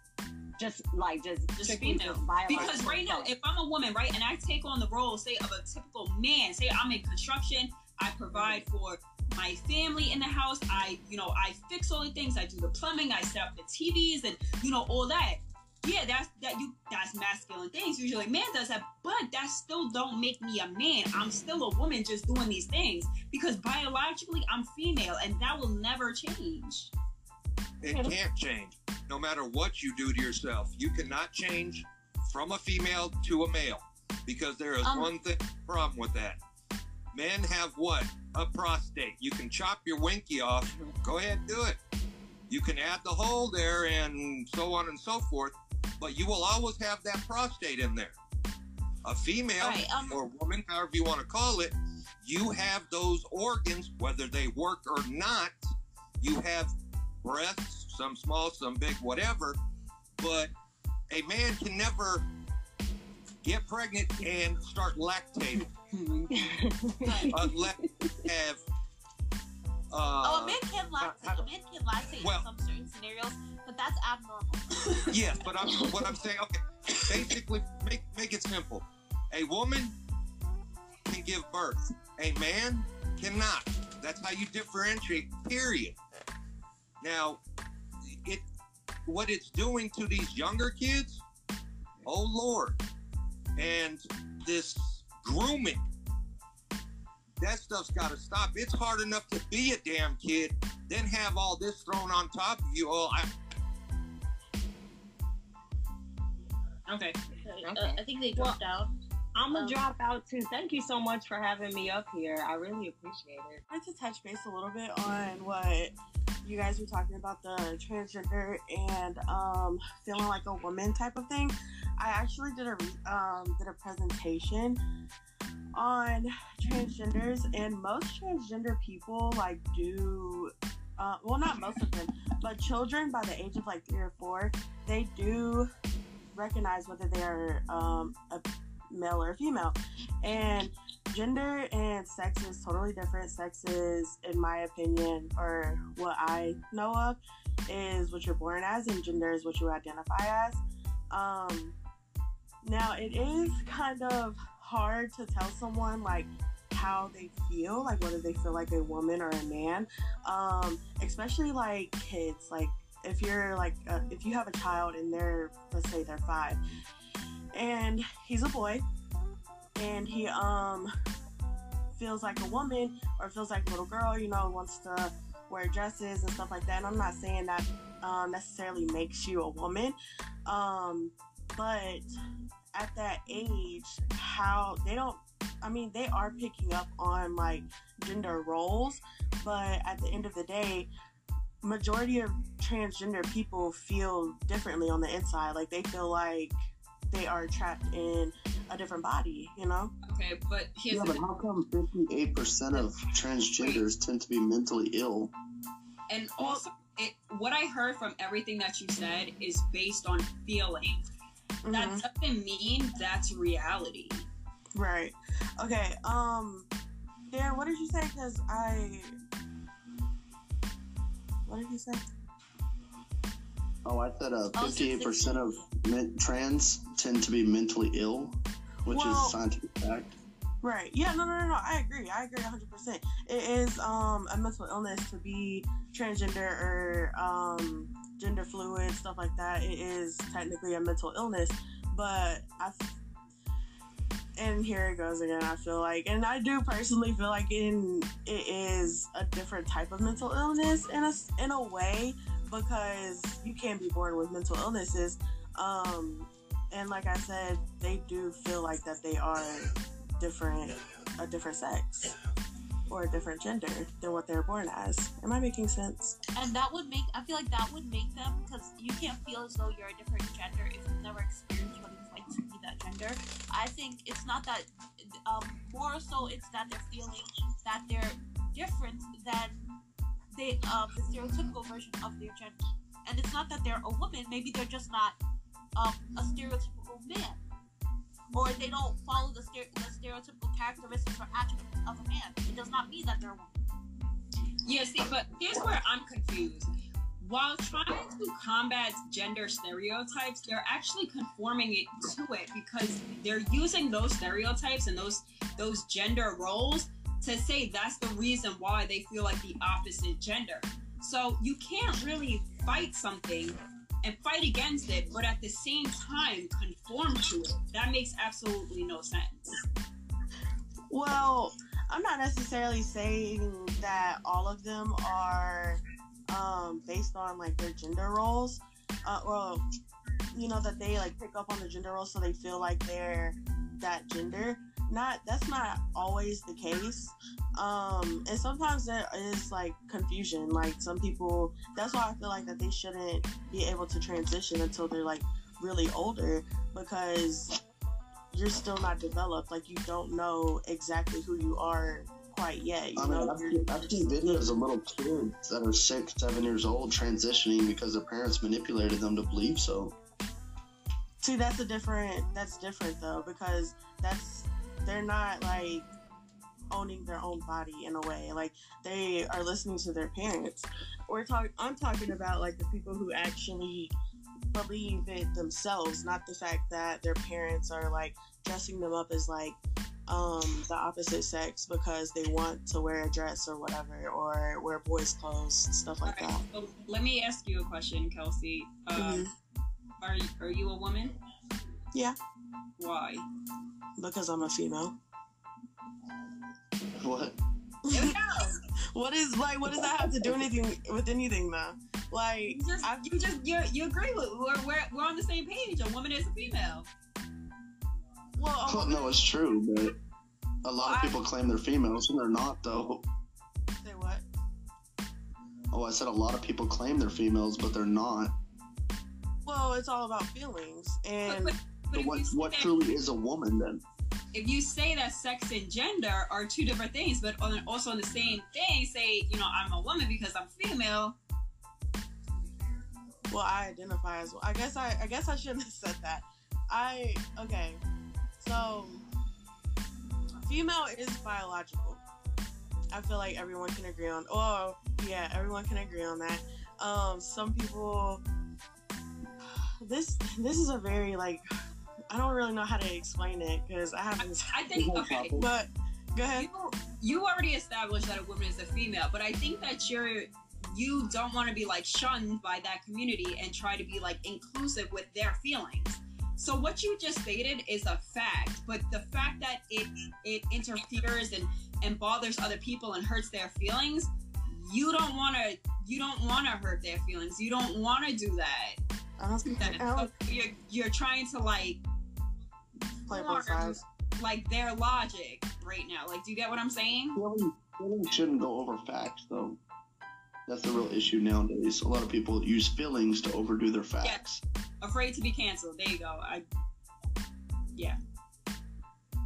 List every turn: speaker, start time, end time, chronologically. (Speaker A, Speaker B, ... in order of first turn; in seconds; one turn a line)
Speaker A: 0.6-3.3
Speaker B: 1.6-26.9
Speaker A: 8.3-8.6
Speaker C: 27.8-36.4
Speaker A: 27.8-28.1
Speaker D: 34.8-35.1
Speaker C: 37.1-41.8
Speaker C: 42.5-48.1
Speaker C: 49.0-59.6
Speaker D: 49.6-50.2
Speaker C: 60.2-60.5
Speaker C: 61.1-62.2
Speaker C: 63.4-65.6
Speaker B: 65.9-66.3
Speaker A: 66.3-68.1
Speaker C: 67.3-68.6
Speaker C: 69.9-71.4
Speaker D: 70.2-74.8
Speaker C: 72.2-72.4
Speaker C: 75.1-80.0
Speaker A: 75.6-76.1
Speaker C: 81.1-86.0
Speaker C: 87.0-87.4
Speaker C: 88.1-88.4
Speaker C: 89.0-91.2
Speaker C: 92.0-92.8
Speaker C: 93.6-95.8
Speaker C: 97.4-103.2
Speaker A: 107.6-108.6
Speaker D: 107.8-108.6
Speaker A: 109.3-113.6
Speaker E: 113.7-124.8
Speaker E: 125.7-135.7
Speaker E: 136.3-150.6
Speaker E: 151.1-151.7
Speaker E: 152.6-166.6
Speaker E: 167.5-168.8
Speaker E: 169.8-170.9
Speaker E: 171.9-182.1
Speaker E: 182.7-190.9
Speaker E: 191.6-196.6
Speaker E: 197.1-199.9
Speaker B: 200.1-201.2
Speaker F: 200.9-205.3
Speaker B: 203.6-203.8
Speaker B: 206.1-211.0
Speaker E: 211.6-212.0
Speaker B: 211.7-214.3
Speaker E: 214.7-216.7
Speaker E: 217.3-219.1
Speaker E: 221.5-222.0
Speaker F: 223.8-228.3
Speaker D: 224.5-225.6
Speaker F: 228.8-230.2
Speaker E: 228.9-229.3
Speaker E: 230.6-242.8
Speaker E: 244.4-259.7
Speaker E: 260.2-262.1
Speaker E: 262.9-266.1
Speaker D: 266.3-279.6
Speaker D: 280.3-285.2
Speaker D: 285.8-287.4
Speaker D: 288.3-293.6
Speaker B: 294.6-319.4
Speaker E: 320.9-329.6
Speaker E: 330.3-347.5
Speaker E: 348.3-354.5
Speaker F: 352.9-359.9
Speaker E: 361.2-365.9
Speaker E: 366.7-373.9
Speaker E: 374.5-386.4
Speaker B: 386.1-389.2
Speaker E: 388.9-389.3
Speaker B: 390.0-391.1
Speaker B: 392.8-393.2
Speaker E: 394.0-394.9
Speaker F: 397.0-397.4
Speaker E: 397.9-398.1
Speaker B: 397.9-398.5
Speaker E: 398.9-403.0
Speaker B: 402.5-406.9
Speaker E: 408.4-409.3
Speaker F: 408.6-409.9
Speaker F: 410.6-413.0
Speaker B: 410.8-411.1
Speaker E: 413.8-414.2
Speaker F: 415.7-418.3
Speaker E: 419.4-421.5
Speaker B: 421.2-422.8
Speaker F: 421.9-423.8
Speaker B: 424.3-431.1
Speaker E: 433.3-437.8
Speaker E: 438.4-439.0
Speaker E: 440.4-442.0
Speaker E: 442.9-448.2
Speaker E: 449.8-451.4
Speaker E: 452.1-454.5
Speaker B: 454.2-455.3
Speaker F: 454.7-455.5
Speaker E: 455.4-456.5
Speaker B: 456.4-478.8
Speaker E: 479.2-480.1
Speaker B: 479.5-481.8
Speaker E: 483.1-483.8
Speaker B: 483.1-487.2
Speaker F: 487.1-489.6
Speaker F: 490.5-494.4
Speaker B: 494.8-496.4